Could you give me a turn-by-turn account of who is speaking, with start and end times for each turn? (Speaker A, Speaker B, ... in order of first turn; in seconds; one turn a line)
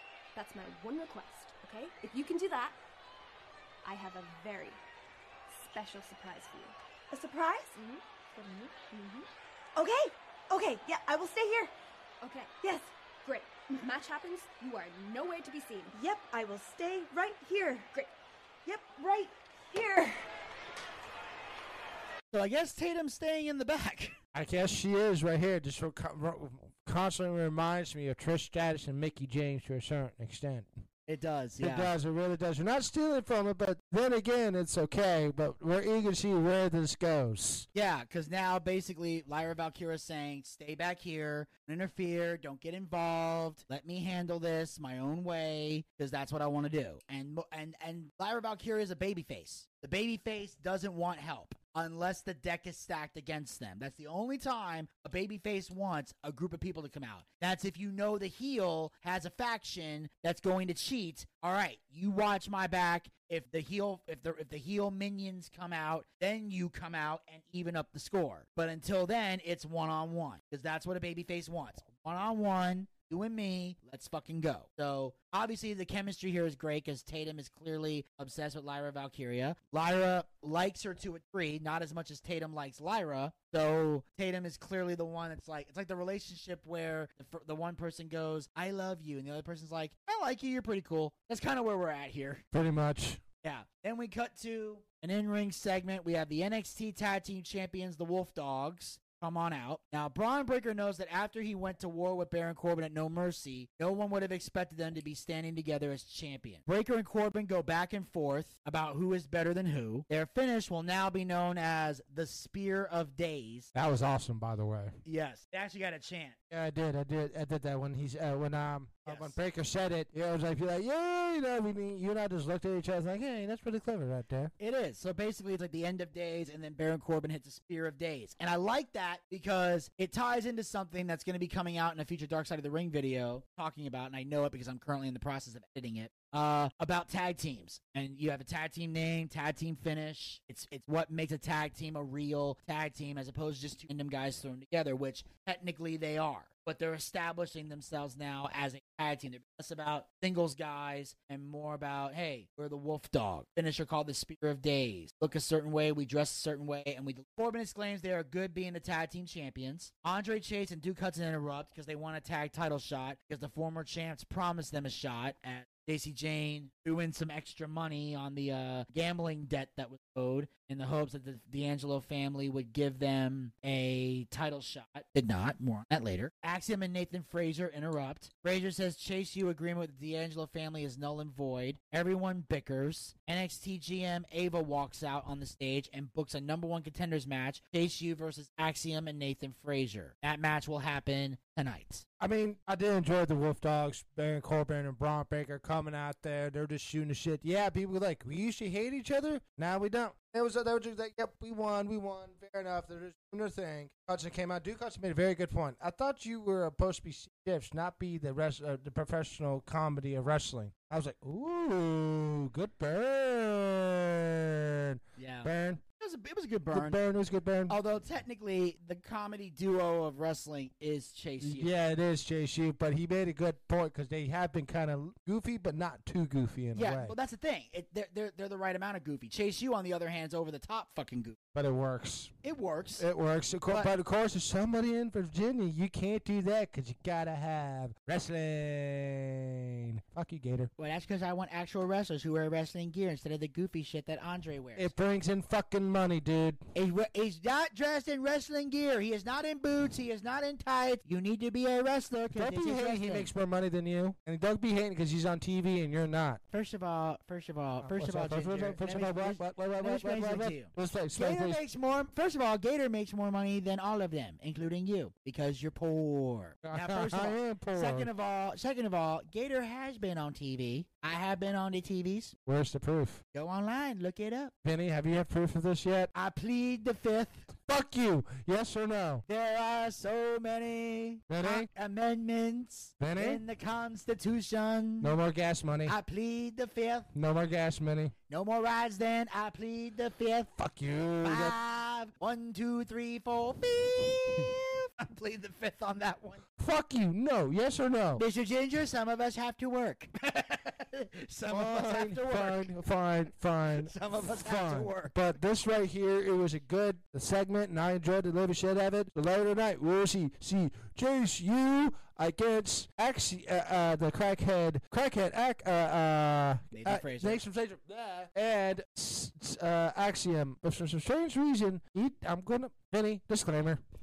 Speaker A: 0.3-2.8
Speaker A: 3.8-4.8
Speaker A: 5.5-6.8
Speaker B: 7.1-7.7
Speaker A: 7.7-9.2
Speaker B: 9.8-11.7
Speaker A: 12.2-12.6
Speaker B: 12.6-12.9
Speaker A: 13.2-16.0
Speaker B: 15.9-17.9
Speaker B: 18.6-20.2
Speaker C: 22.3-24.1
Speaker D: 24.3-30.7
Speaker C: 31.1-31.9
Speaker D: 31.6-37.7
Speaker C: 37.7-92.4
Speaker D: 92.5-93.2
Speaker C: 93.4-113.7
Speaker D: 113.7-115.0
Speaker C: 115.0-116.3
Speaker D: 116.5-124.5
Speaker C: 119.0-119.3
Speaker C: 124.6-192.0
Speaker D: 192.2-215.8
Speaker C: 215.2-217.0
Speaker D: 216.7-217.8
Speaker C: 217.7-221.7
Speaker D: 221.4-227.2
Speaker C: 226.7-231.4
Speaker D: 231.5-232.3
Speaker C: 232.4-233.1
Speaker D: 233.0-240.7
Speaker C: 233.7-233.9
Speaker C: 240.8-244.9
Speaker D: 244.8-246.6
Speaker C: 246.7-253.3
Speaker D: 252.3-256.4
Speaker C: 256.5-272.3
Speaker D: 257.8-261.6
Speaker D: 266.6-268.1
Speaker D: 272.4-273.2
Speaker C: 273.3-274.5
Speaker D: 274.6-276.1
Speaker C: 276.1-277.5
Speaker D: 277.6-279.2
Speaker C: 279.3-285.1
Speaker D: 281.3-281.7
Speaker D: 283.0-283.4
Speaker D: 285.0-286.0
Speaker C: 285.9-287.1
Speaker D: 287.1-288.1
Speaker C: 288.3-290.5
Speaker D: 290.6-291.6
Speaker C: 291.2-296.4
Speaker D: 296.6-298.2
Speaker C: 298.2-302.7
Speaker D: 301.5-323.8
Speaker C: 303.7-305.1
Speaker C: 316.7-317.4